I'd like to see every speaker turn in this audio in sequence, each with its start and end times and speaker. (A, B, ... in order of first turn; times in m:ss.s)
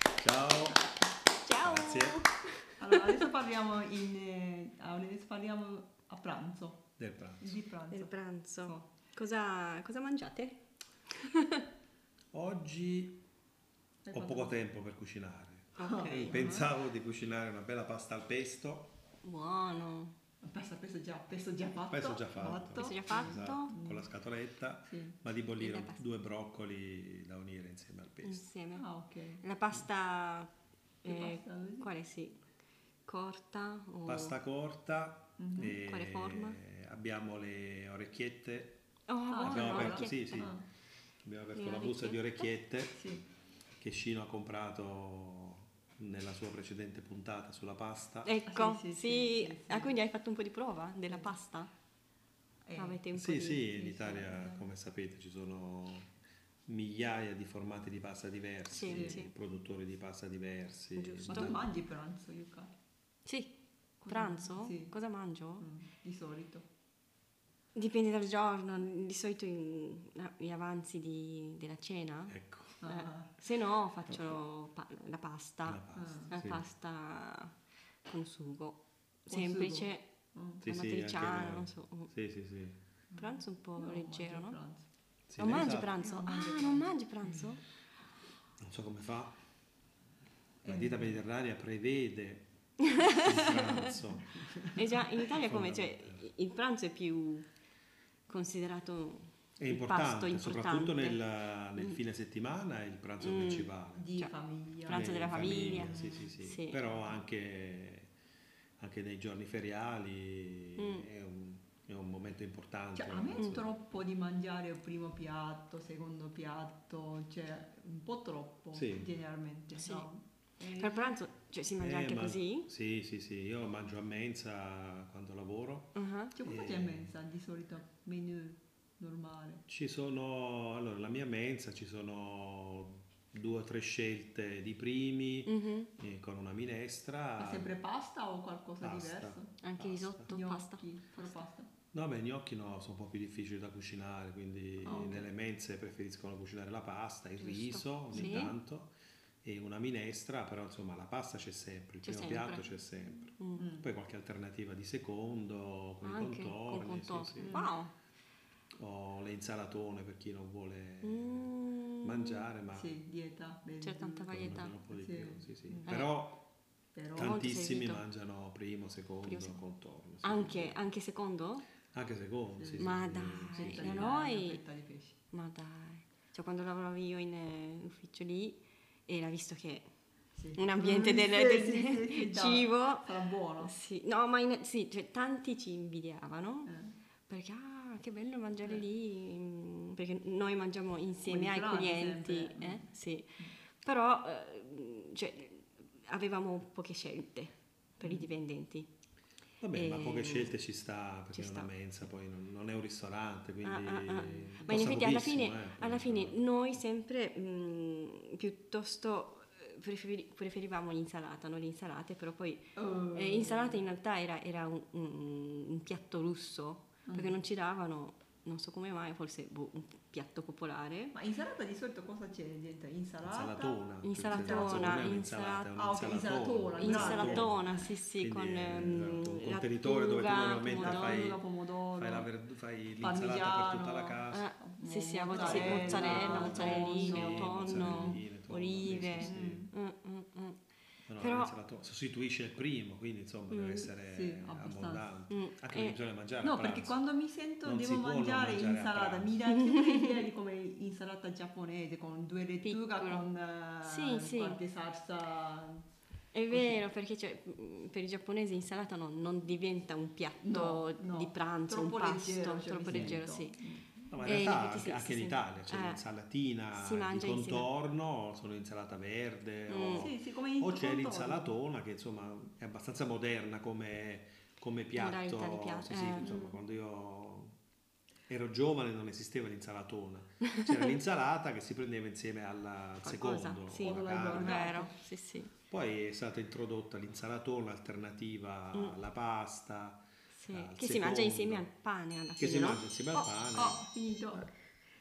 0:00.2-0:00.8 A
0:01.4-0:03.0 B
0:01.6-0:02.2 A
0:02.8-0:06.9 C
0:07.0-0:07.6 A
0:07.4-0:08.9 C
0:07.9-0:11.6 B
0:12.3-0:13.2 A
0:14.0-0:14.6 C
0:14.1-0:18.9 A
0:15.8-0:16.6 B
0:15.8-0:16.7 C
0:19.2-0:20.1 B
0:20.4-0:24.1 C
0:21.9-0:28.4 A
0:22.8-0:23.7 B
0:24.9-0:25.2 C
0:25.6-0:26.0 B
0:28.2-0:28.9 B
0:28.7-0:29.4 C
0:29.4-0:30.5 B
0:31.0-0:31.9 C
0:31.0-0:32.4 B
0:33.0-0:34.4 B
0:34.0-0:38.8 A
0:35.4-0:35.8 C
0:35.6-0:36.6 B
0:39.1-0:40.5 B
0:39.3-0:40.6 C
0:39.4-0:40.6 A
0:41.2-0:43.0 A
0:41.5-0:42.5 B
0:42.9-0:43.2 C
0:43.8-0:48.3 A
0:48.2-0:51.7 B
0:48.5-0:49.9 C
0:51.1-0:51.3 C
0:52.6-0:53.0 C
0:52.8-0:53.7 B
0:53.1-0:56.1 A
0:53.6-0:54.7 C
0:56.7-1:01.6 A
0:58.7-0:59.3 B
0:58.8-0:59.2 C
1:00.9-1:01.6 B
1:01.2-1:02.7 C
1:03.2-1:03.5 B
1:04.0-1:04.9 C
1:04.1-1:05.6 B
1:05.6-1:06.6 C
1:07.7-1:17.5 B
1:12.3-1:12.8 A
1:12.8-1:13.3 C
1:15.6-1:16.6 A
1:15.9-1:16.4 C
1:18.0-1:20.1 B
1:19.3-1:20.6 C
1:20.6-1:22.1 B
1:20.6-1:22.8 A
1:23.1-1:24.8 C
1:23.1-1:24.6 B
1:25.3-1:26.0 A
1:25.4-1:27.6 B
1:25.4-1:27.5 C
1:28.6-1:29.4 A
1:30.6-1:34.4 A
1:30.6-1:31.2 C
1:32.9-1:33.9 B
1:34.3-1:35.0 C
1:34.7-1:37.5 B
1:35.2-1:36.3 A
1:38.3-1:41.2 B
1:39.6-1:44.1 A
1:43.2-1:44.3 B
1:44.0-1:46.3 C
1:44.8-1:46.8 B
1:44.8-1:48.1 A
1:48.8-1:53.6 A
1:50.8-1:51.1 B
1:52.9-2:01.1 C
1:58.7-1:59.1 A
1:59.8-2:00.1 B
2:00.7-2:02.7 B
2:01.8-2:07.1 A
2:06.0-2:06.3 B
2:06.4-2:09.6 C
2:09.7-2:17.7 A
2:15.4-2:15.9 B
2:17.4-2:19.6 C
2:18.8-2:20.3 A
2:19.6-2:21.3 B
2:20.3-2:21.7 C
2:21.9-2:37.6 A
2:24.8-2:25.3 C
2:27.4-2:28.5 B
2:28.1-2:28.5 C
2:32.0-2:32.7 B
2:33.4-2:33.7 B
2:33.6-2:33.9 C
2:36.0-2:37.9 B
2:37.4-2:37.7 C
2:38.7-2:42.9 A
2:41.0-2:42.4 B
2:42.7-2:45.9 C
2:43.8-2:44.7 B
2:44.3-2:46.4 A
2:45.8-2:46.1 B
2:46.9-2:47.4 C
2:47.1-2:50.8 A
2:47.2-2:48.0 B
2:49.2-2:49.6 B
2:50.2-2:51.6 B
2:51.9-2:54.1 A
2:52.6-2:52.9 C
2:52.8-2:54.6 B
2:53.5-2:55.2 C
2:55.3-2:59.9 B
3:00.4-3:03.7 C
3:00.5-3:06.7 B
3:06.6-3:06.9 C
3:07.3-3:18.9 B
3:11.2-3:13.5 C
3:19.6-3:26.4 A
3:19.7-3:20.6 B
3:21.3-3:21.7 B
3:23.6-3:41.1 B
3:32.8-3:33.8 C
3:37.1-3:37.4 C
3:41.1-3:45.2 C
3:43.2-3:47.6 A
3:44.0-3:46.2 B
3:45.7-3:47.8 C
3:46.8-3:51.3 B
3:48.1-3:54.5 A
3:50.4-3:52.3 C
3:53.0-3:58.2 C
3:54.3-4:00.6 B
3:55.3-3:59.7 A
3:59.1-3:59.7 C
4:01.1-4:07.0 A
4:01.2-4:01.5 B
4:03.5-4:03.9 B
4:04.0-4:05.2 C
4:05.3-4:06.0 B
4:06.4-4:15.8 C
4:07.6-4:09.3 A
4:09.6-4:10.1 B
4:12.6-4:13.2 B
4:13.8-4:14.6 B
4:16.3-4:23.6 B
4:16.5-4:16.8 C
4:20.4-4:24.4 C
4:22.9-4:23.2 A
4:24.1-4:37.5 A
4:24.2-4:26.0 B
4:26.7-4:27.7 B
4:29.7-4:30.1 B
4:29.9-4:31.6 C
4:34.9-4:36.4 B
4:36.2-4:36.6 C
4:38.3-4:44.7 A
4:43.0-4:45.5 B
4:43.8-4:45.0 C
4:45.7-4:51.7 A
4:48.7-4:49.0 B
4:50.3-4:52.8 B
4:52.4-4:53.8 A
4:53.1-4:54.5 C